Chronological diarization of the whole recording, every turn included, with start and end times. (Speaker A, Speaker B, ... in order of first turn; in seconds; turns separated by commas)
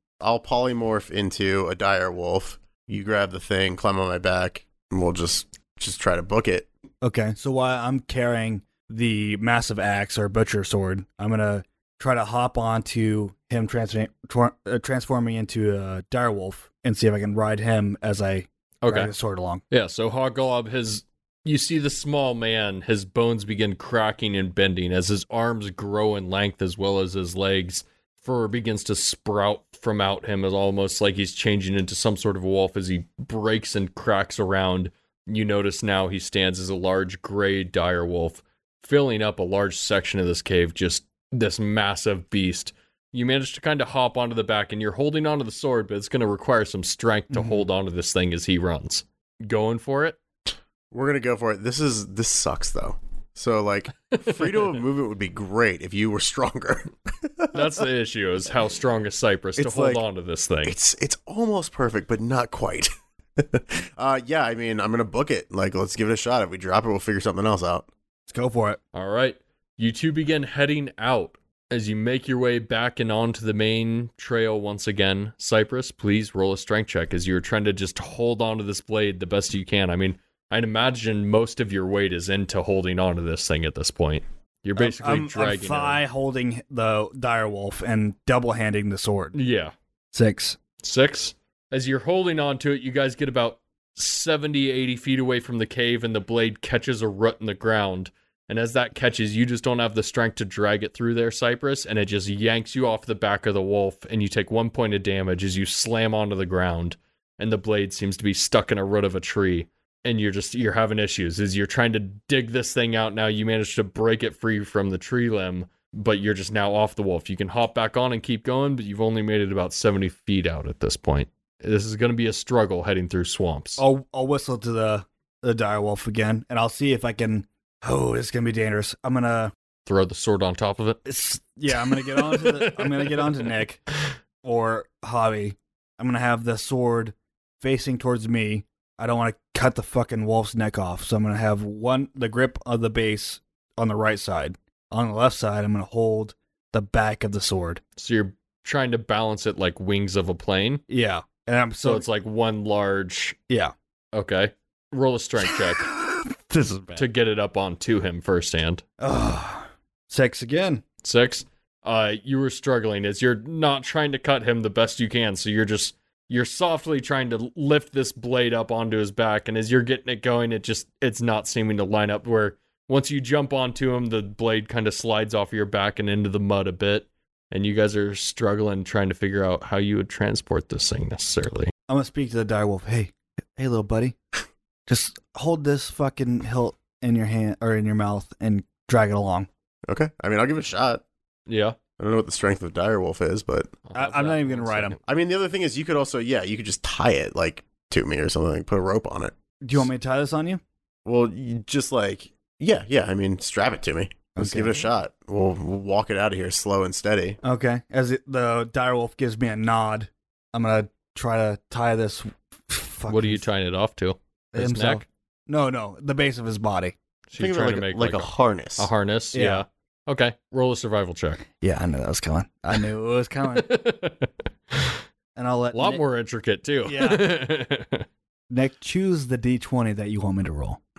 Speaker A: 0.2-6.7, Speaker B: 7.0-19.6, Speaker C: 18.8-19.1, Speaker C: 19.7-50.2, Speaker B: 47.3-47.6, Speaker A: 50.9-57.8, Speaker C: 54.1-54.8, Speaker C: 57.5-60.8, Speaker A: 59.6-60.0, Speaker A: 60.6-67.9, Speaker B: 68.3-68.8, Speaker C: 68.9-86.0, Speaker B: 84.8-89.3, Speaker C: 89.3-89.7, Speaker B: 90.1-90.6, Speaker C: 90.8-123.8, Speaker B: 123.8-129.5, Speaker C: 129.9-131.0, Speaker B: 131.1-133.8, Speaker C: 131.9-133.5, Speaker B: 134.4-147.8, Speaker C: 148.0-150.8, Speaker B: 150.9-152.0, Speaker C: 151.8-153.4, Speaker C: 154.1-155.9, Speaker B: 155.5-157.1, Speaker C: 156.9-158.8, Speaker B: 159.0-160.8, Speaker C: 161.0-181.7, Speaker B: 181.9-184.1, Speaker B: 184.9-189.5, Speaker A: 189.9-191.0, Speaker C: 191.5-191.8, Speaker A: 192.0-193.8, Speaker C: 193.9-195.0, Speaker B: 193.9-195.0, Speaker A: 195.1-199.3, Speaker B: 199.6-200.6, Speaker A: 201.0-207.4, Speaker B: 204.3-204.8, Speaker B: 207.4-213.4, Speaker C: 213.1-215.0, Speaker B: 214.5-216.9, Speaker C: 217.3-221.4, Speaker A: 217.4-218.9, Speaker B: 219.3-219.6, Speaker B: 221.6-223.7, Speaker C: 223.6-225.0, Speaker B: 225.3-226.0, Speaker C: 225.7-228.1, Speaker B: 226.8-227.3, Speaker B: 228.5-230.8